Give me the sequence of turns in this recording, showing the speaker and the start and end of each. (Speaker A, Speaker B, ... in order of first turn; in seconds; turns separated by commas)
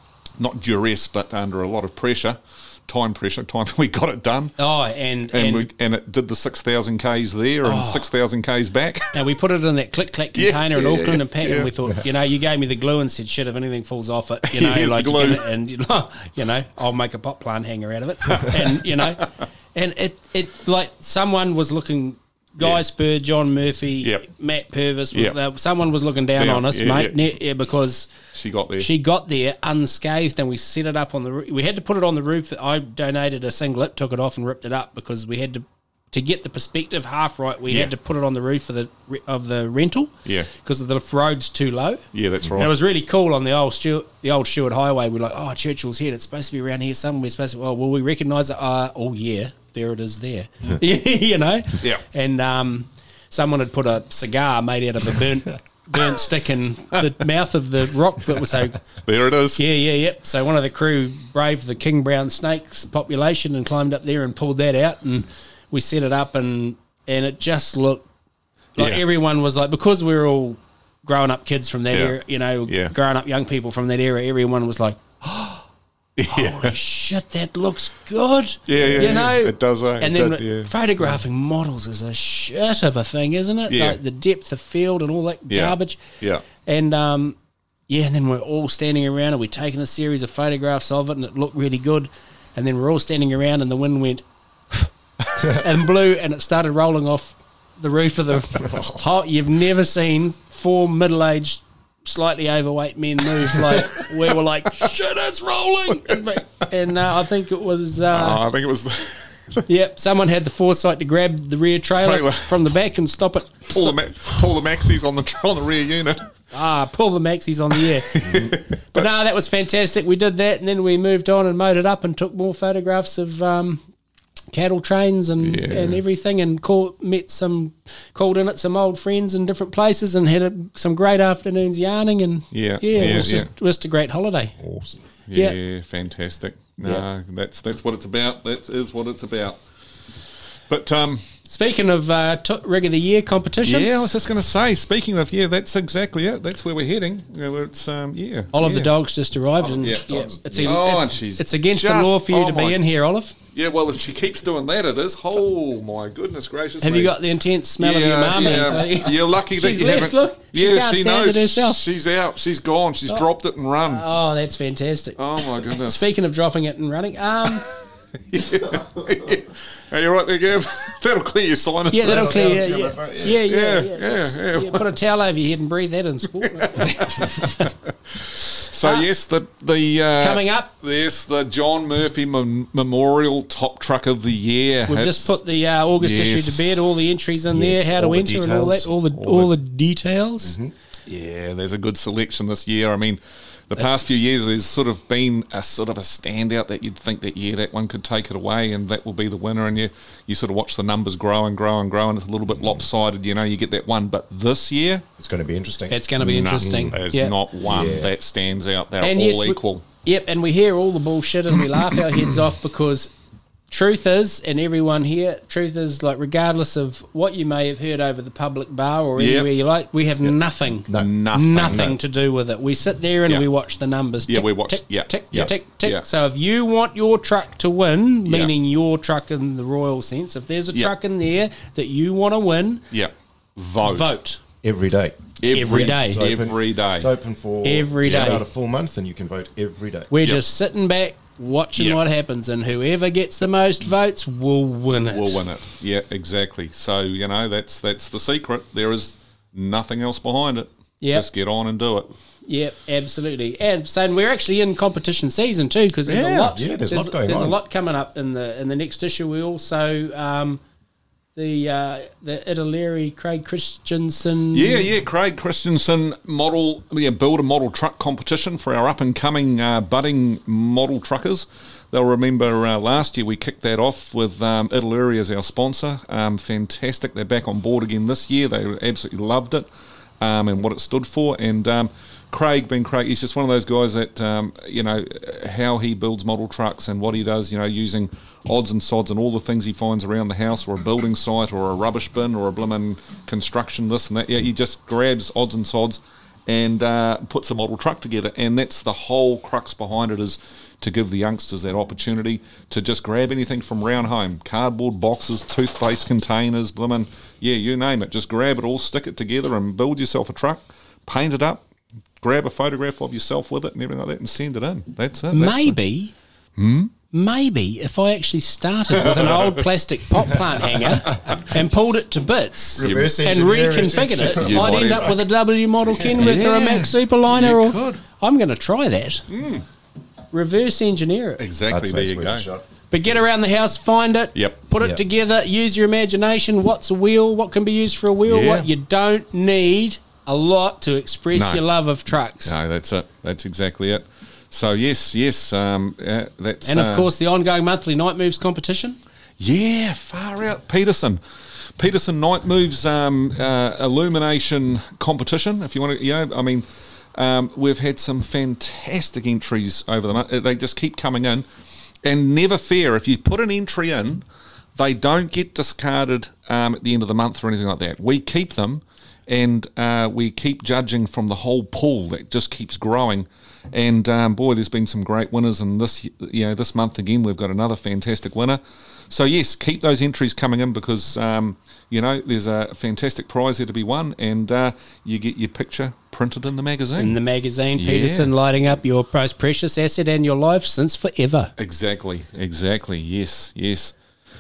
Speaker A: 0.4-4.5, Speaker B: 4.6-5.7, Speaker A: 5.3-9.1, Speaker B: 7.6-8.1, Speaker B: 9.1-28.1, Speaker A: 10.3-11.7, Speaker A: 14.5-15.4, Speaker A: 18.3-19.3, Speaker A: 26.4-27.2, Speaker A: 28.3-28.9, Speaker B: 28.8-58.8, Speaker A: 40.2-40.5, Speaker A: 42.1-42.7, Speaker A: 59.0-59.6, Speaker B: 59.6-68.1, Speaker B: 68.8-75.6, Speaker A: 71.9-72.2, Speaker A: 72.7-72.9, Speaker A: 76.2-76.8, Speaker B: 76.3-86.0, Speaker A: 78.7-80.7, Speaker C: 78.8-79.1, Speaker A: 83.7-84.0, Speaker A: 85.5-86.4, Speaker B: 86.6-87.4, Speaker B: 87.9-108.4, Speaker A: 103.5-104.1, Speaker A: 108.1-109.6, Speaker B: 109.7-114.0, Speaker A: 112.0-112.6, Speaker A: 113.7-116.3, Speaker B: 116.5-123.8, Speaker A: 118.1-119.0, Speaker B: 124.5-134.6, Speaker A: 125.4-126.0, Speaker A: 132.5-133.5, Speaker C: 133.0-133.5, Speaker C: 134.6-135.0, Speaker A: 135.3-139.6, Speaker A: 140.7-141.2, Speaker B: 141.5-144.1, Speaker A: 143.6-148.9, Speaker B: 148.5-153.4, Speaker C: 149.7-150.8, Speaker A: 150.6-152.8, Speaker A: 153.5-157.2, Speaker B: 156.8-161.8, Speaker A: 157.8-164.1, Speaker B: 163.8-167.6, Speaker A: 165.2-166.1, Speaker A: 168.3-172.4, Speaker B: 171.9-177.7, Speaker C: 172.0-173.5, Speaker A: 173.4-174.9, Speaker A: 176.4-185.4, Speaker B: 178.8-179.1, Speaker B: 180.2-180.7, Speaker B: 184.9-190.6, Speaker A: 186.0-186.8, Speaker C: 187.5-188.9, Speaker C: 190.4-190.7, Speaker A: 191.1-205.1, Speaker C: 205.2-207.0, Speaker B: 205.9-207.3, Speaker A: 206.2-209.8, Speaker C: 207.6-208.1, Speaker B: 209.0-213.1, Speaker B: 213.7-232.8, Speaker A: 219.2-219.5, Speaker A: 220.9-222.0, Speaker A: 224.3-226.1, Speaker A: 228.2-228.5, Speaker A: 232.9-234.1, Speaker B: 233.8-234.4, Speaker C: 234.6-240.1, Speaker A: 235.4-237.1, Speaker B: 235.5-236.2, Speaker B: 237.6-238.4, Speaker A: 238.1-238.3, Speaker B: 240.1-245.5, Speaker A: 245.1-252.1, Speaker B: 251.0-251.2, Speaker B: 252.4-260.6, Speaker A: 256.1-256.6, Speaker C: 256.5-257.6, Speaker B: 261.4-264.9, Speaker A: 264.5-279.7, Speaker A: 280.2-311.6, Speaker A: 312.2-315.8, Speaker B: 315.3-316.1, Speaker A: 316.6-316.9, Speaker B: 317.1-329.2, Speaker A: 318.9-319.6, Speaker C: 322.8-325.2, Speaker A: 322.8-323.1, Speaker A: 324.2-325.1, Speaker A: 326.2-328.0, Speaker A: 329.3-329.6, Speaker B: 330.3-331.4, Speaker A: 331.4-332.4, Speaker C: 331.7-332.6, Speaker B: 332.9-342.5, Speaker A: 338.2-338.7, Speaker A: 341.4-341.6, Speaker A: 342.4-347.1, Speaker B: 346.6-349.0, Speaker A: 349.4-361.4, Speaker A: 362.0-364.2, Speaker A: 364.8-387.2, Speaker B: 387.0-391.5, Speaker A: 387.8-388.3, Speaker A: 391.6-393.9